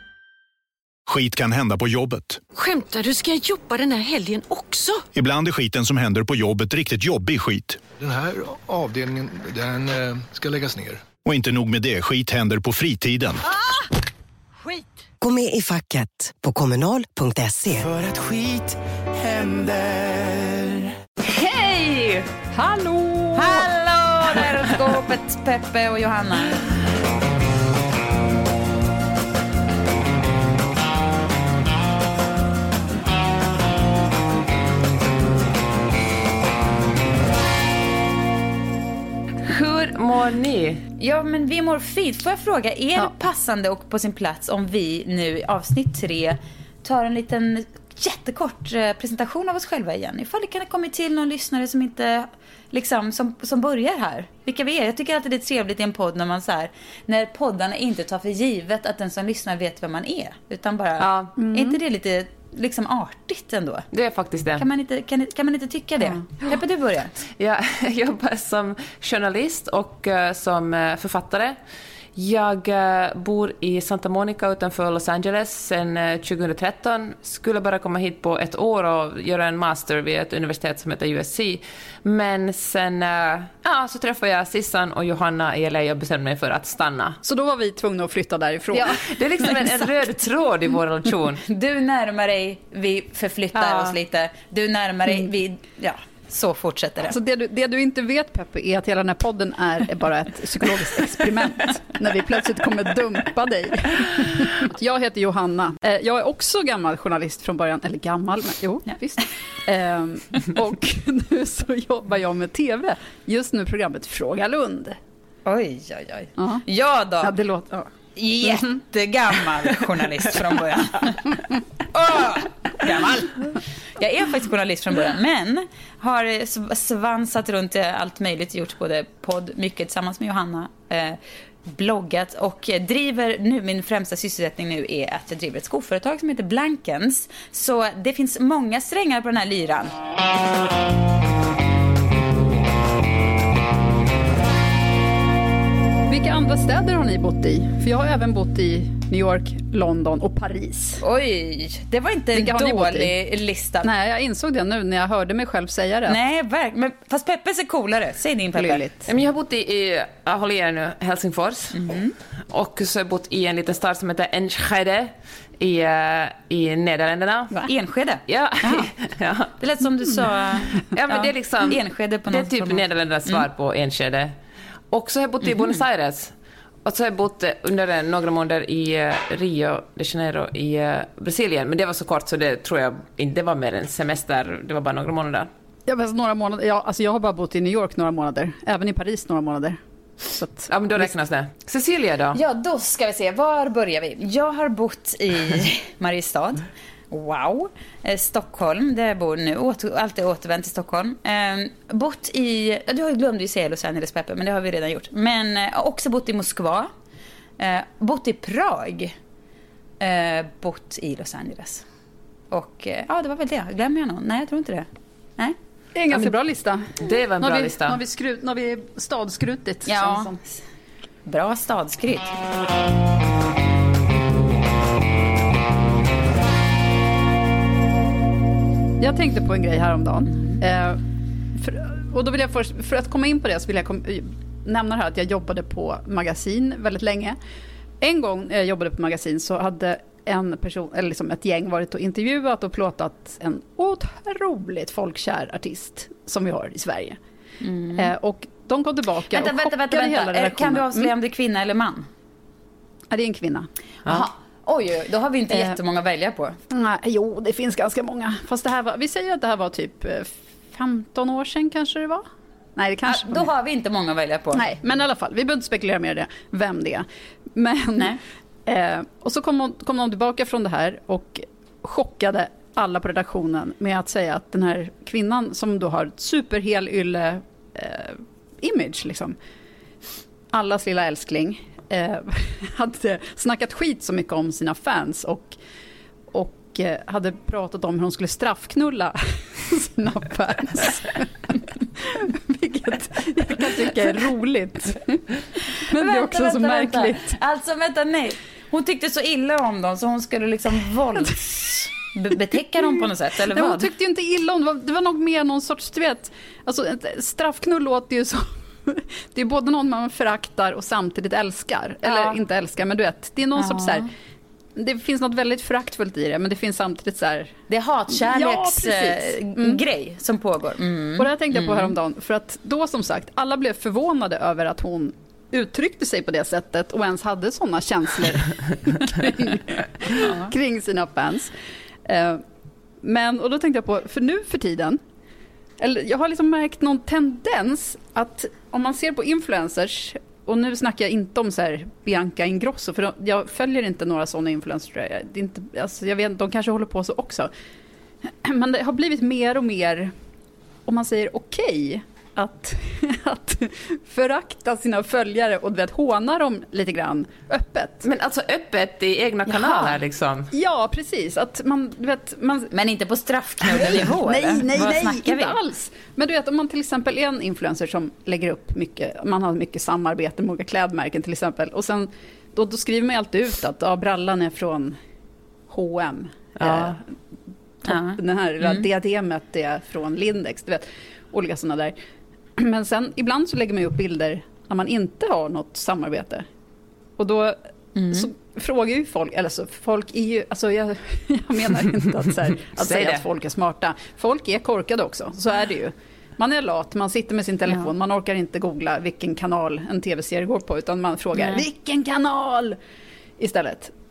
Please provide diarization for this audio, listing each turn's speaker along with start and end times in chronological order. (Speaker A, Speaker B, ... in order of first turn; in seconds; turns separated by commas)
Speaker A: 1.1-2.4, Speaker B: 2.5-5.0, Speaker A: 5.1-7.8, Speaker C: 8.0-11.0, Speaker A: 11.2-13.4, Speaker D: 15.2-17.9, Speaker E: 17.7-20.9, Speaker F: 21.2-22.3, Speaker G: 22.5-23.7, Speaker H: 23.4-26.6, Speaker F: 39.5-40.9, Speaker H: 41.0-63.9, Speaker F: 61.0-61.3, Speaker G: 61.4-61.8, Speaker F: 63.9-64.6, Speaker H: 64.6-67.1, Speaker F: 67.4-71.6, Speaker F: 72.2-87.2, Speaker G: 87.2-89.0, Speaker F: 88.7-91.4, Speaker H: 91.5-97.2, Speaker G: 93.6-93.9, Speaker G: 97.1-115.0, Speaker H: 115.5-139.9, Speaker G: 116.4-116.6, Speaker G: 117.2-117.7, Speaker G: 146.1-151.0, Speaker H: 151.0-153.9, Speaker G: 152.3-153.1, Speaker G: 153.8-156.2, Speaker H: 156.1-158.8, Speaker G: 158.5-159.1, Speaker F: 159.1-161.8, Speaker H: 161.7-162.1, Speaker F: 162.5-167.5, Speaker H: 167.7-168.9, Speaker F: 168.3-169.5, Speaker H: 169.6-173.4, Speaker F: 170.9-174.3, Speaker F: 174.9-176.3, Speaker H: 175.4-175.8, Speaker F: 176.8-185.5, Speaker G: 185.9-191.1, Speaker F: 190.7-192.4, Speaker H: 192.3-206.9, Speaker H: 207.6-209.1, Speaker H: 210.0-211.8, Speaker H: 212.5-215.6, Speaker G: 215.9-220.3, Speaker F: 217.0-218.0, Speaker H: 219.8-220.6, Speaker H: 221.2-222.4, Speaker G: 229.0-231.0, Speaker G: 231.5-237.4, Speaker G: 238.0-247.2, Speaker H: 247.6-248.1, Speaker G: 247.9-251.1, Speaker H: 249.3-252.1, Speaker G: 253.1-253.7, Speaker H: 254.1-256.6, Speaker G: 255.5-255.8, Speaker G: 256.7-262.2, Speaker G: 262.8-263.4, Speaker H: 263.1-264.6, Speaker G: 264.5-268.1, Speaker G: 268.6-279.4, Speaker G: 280.5-285.5, Speaker G: 286.3-297.3, Speaker H: 295.9-303.9, Speaker G: 303.0-314.1, Speaker H: 312.0-312.4, Speaker H: 313.6-314.1, Speaker G: 314.8-317.6, Speaker H: 317.7-321.9, Speaker G: 318.2-319.8, Speaker G: 321.2-331.5, Speaker H: 330.1-330.5, Speaker G: 332.1-332.4, Speaker G: 333.0-335.0, Speaker G: 335.8-347.5, Speaker G: 348.4-350.1, Speaker G: 350.9-358.0, Speaker F: 358.0-360.5, Speaker H: 359.5-360.0, Speaker G: 360.5-362.7, Speaker H: 362.7-365.6, Speaker G: 363.7-375.0, Speaker G: 375.7-377.0, Speaker F: 376.6-376.9, Speaker G: 377.8-381.9, Speaker H: 377.9-378.8, Speaker G: 382.6-386.4, Speaker G: 387.2-387.6, Speaker H: 387.9-388.3, Speaker G: 388.1-402.8, Speaker F: 392.8-393.2, Speaker H: 401.4-401.6, Speaker G: 403.4-403.9